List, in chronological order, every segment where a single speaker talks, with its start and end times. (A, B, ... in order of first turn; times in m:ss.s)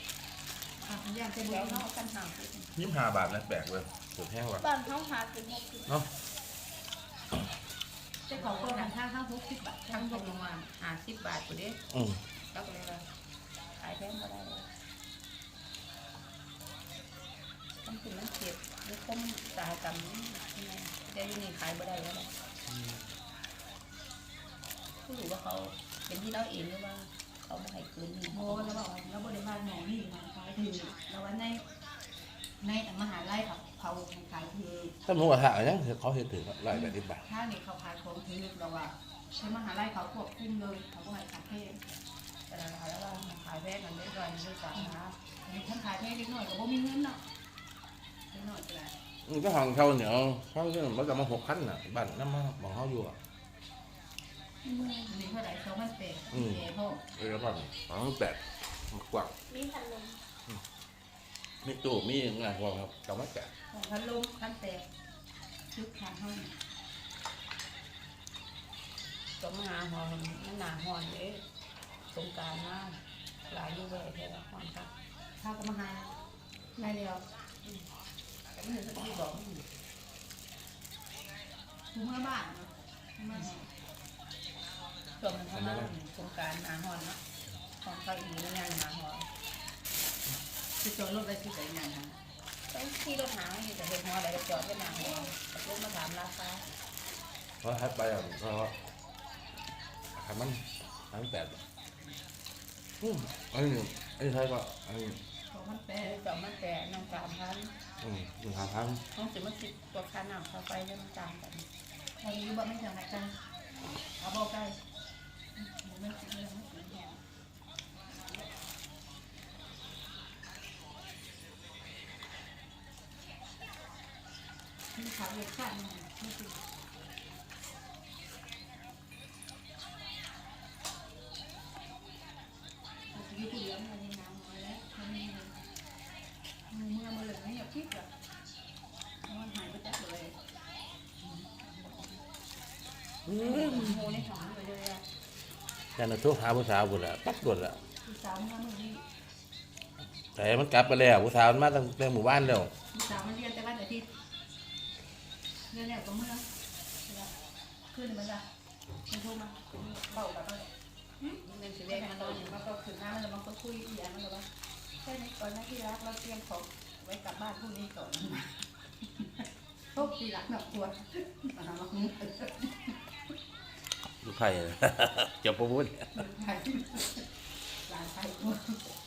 0:00.8-0:01.9 A
0:01.4-0:02.8 B
0:02.7-0:04.7 C
0:04.6-0:05.9 D
0:08.3-0:10.4 A
0:08.3-0:08.9 B
0:09.9-0:11.8 B
0:11.9-0:12.2 C
0:12.5-0:13.1 B
0:13.8-0:14.7 B
0:17.8-0:22.3 B
0:25.0-0:28.9 B
0:28.3-0:31.6 A
0:32.6-0:34.9 A
0:35.1-0:37.2 C
0:36.8-0:41.8 A
0:42.5-0:45.2 B
0:45.4-0:47.2 A
0:48.3-0:48.9 A
0:49.2-0:53.2 C
0:54.7-0:55.1 D
0:55.1-0:57.0 A
0:56.3-0:59.3 C
0:59.5-1:00.2 D
1:01.6-1:03.5 C
1:03.7-1:04.8 A
1:05.7-1:06.6 A
1:09.4-1:11.4 B
1:12.1-1:14.9 B
1:15.4-1:16.1 A
1:16.8-1:17.2 A
1:18.5-1:19.6 B
1:21.9-1:23.6 A
1:25.2-1:27.2 B
1:25.6-1:25.9 C
1:27.8-1:29.3 B
1:30.8-1:32.2 A
1:32.7-1:36.6 B
1:37.6-1:38.8 C
1:40.1-1:41.6 C
1:43.0-1:45.2 C
1:45.5-1:46.2 A
1:46.0-1:47.7 B
1:48.0-1:49.0 C
1:49.1-1:51.7 B
1:52.2-1:53.3 A
1:54.2-1:54.8 A
1:55.6-1:57.2 A
2:05.0-2:06.6 A
2:13.1-2:15.7 A
2:16.7-2:18.1 A
2:19.3-2:20.4 A
2:21.3-2:22.1 A
2:23.3-2:24.0 C
2:23.3-2:25.0 B
2:26.0-2:27.8 C
2:28.0-2:29.0 A
2:30.4-2:32.7 C
2:32.9-2:34.1 A
2:35.7-2:36.5 A
2:37.9-2:38.5 A
2:39.1-2:40.7 A
2:41.2-2:42.6 B
2:41.9-2:44.5 A
2:45.0-2:48.6 A
2:49.9-2:53.0 A
2:54.2-2:56.2 C
2:56.2-2:57.3 A
2:57.9-2:58.8 A